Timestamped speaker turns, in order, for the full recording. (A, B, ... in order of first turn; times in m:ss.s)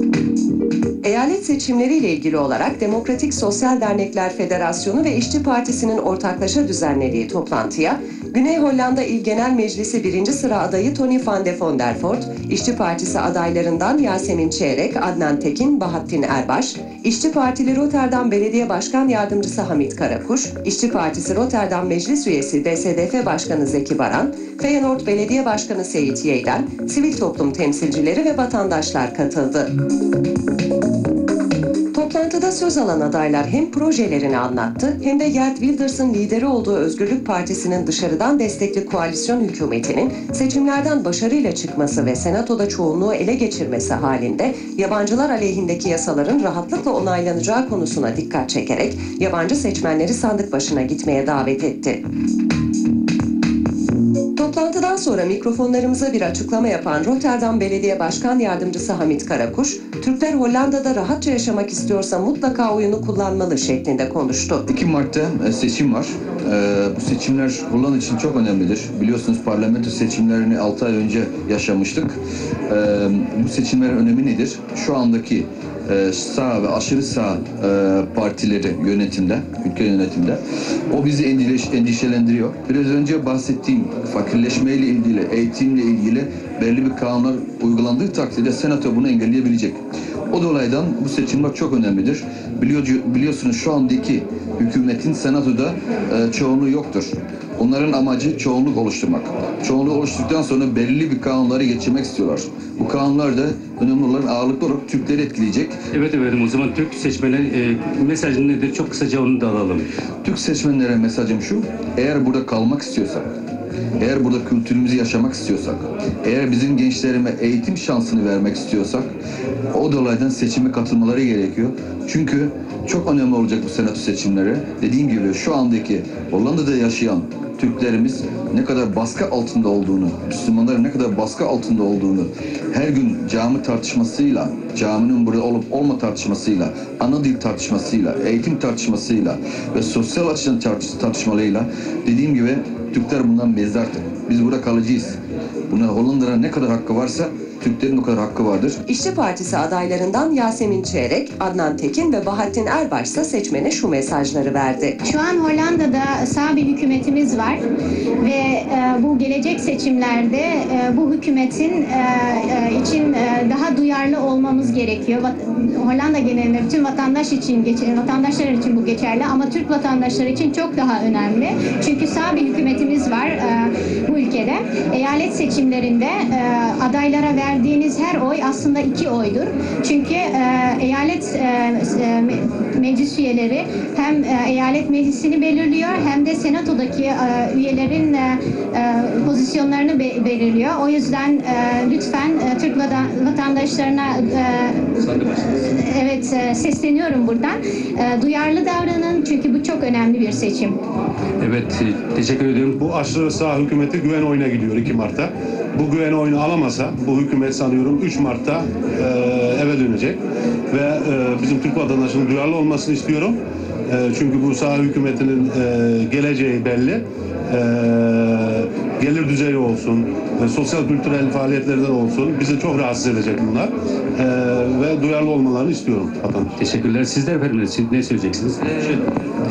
0:01.0-0:29.7 A
0:31.9-0:52.0 A
0:54.4-1:04.6 A
1:04.7-1:12.2 B
1:12.7-1:20.4 B
1:20.9-1:45.8 B
1:45.9-1:49.9 C
1:50.2-1:53.2 B
1:54.0-1:59.1 B
1:59.7-2:25.2 B
2:25.7-2:28.8 B
2:28.9-2:35.0 A
2:35.0-2:37.6 D
2:38.2-3:20.8 D
3:21.4-3:22.8 C
3:22.8-3:30.2 E
3:30.7-3:46.5 E
3:46.6-3:49.0 C